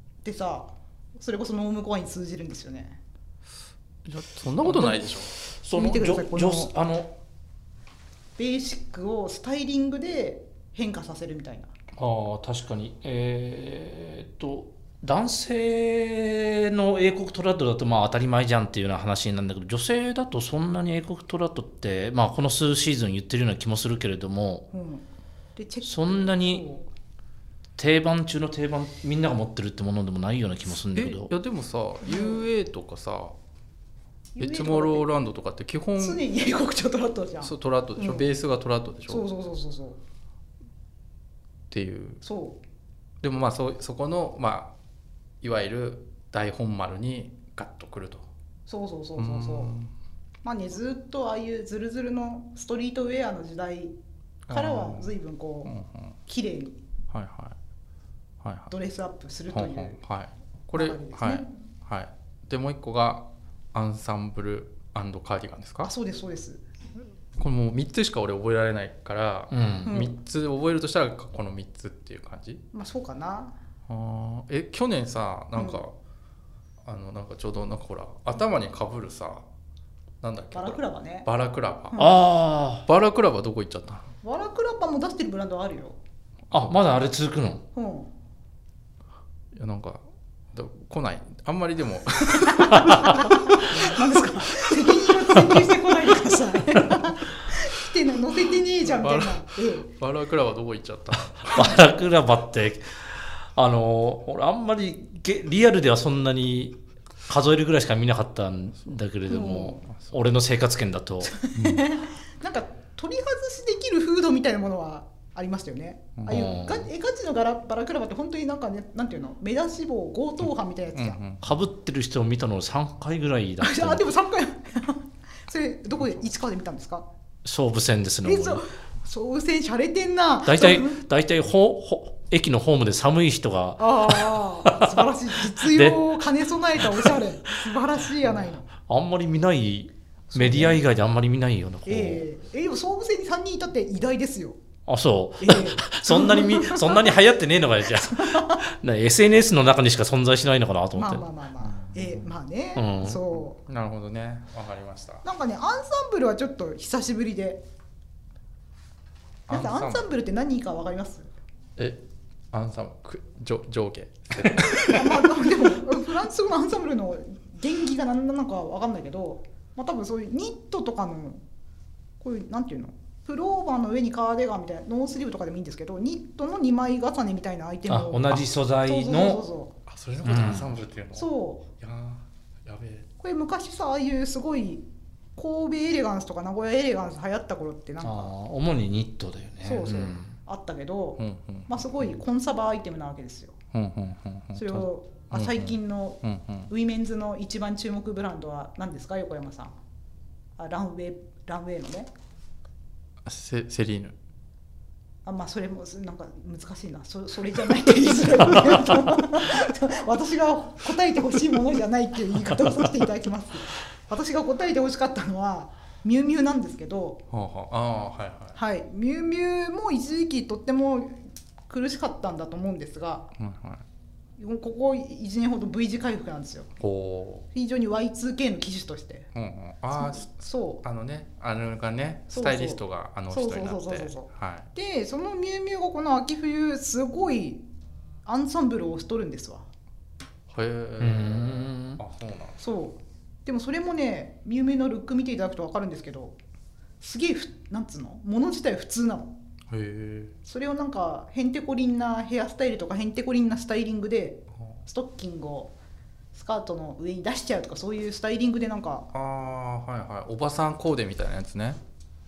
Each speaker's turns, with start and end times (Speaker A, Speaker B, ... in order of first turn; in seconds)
Speaker A: 0.2-3.0, 4.7-5.0, 5.7-6.7, 8.4-11.7, 24.7-25.1, 25.6-26.9, 32.0-32.4, 34.4-35.1, 36.0-38.3, 39.1-40.0, 42.2-42.6, 48.7-49.8, 50.4-54.0, 54.5-55.7, 56.3-56.8, 58.7-60.0, 60.8-61.5, 65.8-66.6, 69.9-70.2, 72.7-73.5, 75.6-75.8, 80.5-81.3, 81.9-82.2, 84.2-86.0, 87.7-88.1, 92.5-99.9, 109.3-109.9, 111.3-121.2, 123.6-127.1, 128.2-131.0, 133.8-138.7, 140.3-140.8, 141.9-144.6, 145.4-147.2, 148.0-148.6, 150.9-153.6, 155.2-157.6, 159.5-161.3, 164.7-171.4, 172.2-179.7, 181.1-181.7, 183.2-184.8, 185.4-188.3, 189.6-193.6, 194.6-199.8, 200.6-202.1, 205.2-217.2, 218.6-223.3, 224.4-226.7, 227.5-229.3, 230.0-230.8, 232.3-237.6, 238.3-239.7, 242.6-246.4, 247.0-249.3, 250.4-255.7, 256.3-259.1
Speaker B: 4.0-5.3, 30.9-33.4, 34.4-36.2, 37.4-39.3, 41.7-42.2, 43.2-44.7, 45.4-48.3, 49.2-49.9, 54.5-56.2, 57.1-57.5, 58.4-58.7, 59.5-65.9, 67.4-72.6, 73.9-75.9, 76.8-79.4, 80.2-82.1, 82.8-84.1, 89.5-94.0, 98.8-101.8, 111.6-111.8, 116.2-116.4, 121.0-121.4, 151.7-152.3, 153.6-155.2, 159.5-160.1, 162.5-165.3, 179.9-183.1, 191.2-192.2, 193.7-196.7, 203.2-204.2, 217.3-218.6, 223.4-223.8, 226.8-227.5, 229.3-230.3, 230.8-234.7, 240.5-242.6, 249.7-250.3, 259.1-261.8
Speaker C: 5.4-7.1, 12.0-24.7, 25.8-26.6, 27.8-31.3, 69.5-69.9, 82.0-82.8, 86.5-87.6, 101.4-111.3, 116.3-116.9, 121.4-124.0, 127.4-128.6, 130.4-142.2, 144.9-151.3, 152.8-153.2, 177.9-179.4, 180.2-180.8, 188.0-190.3, 241.0-242.0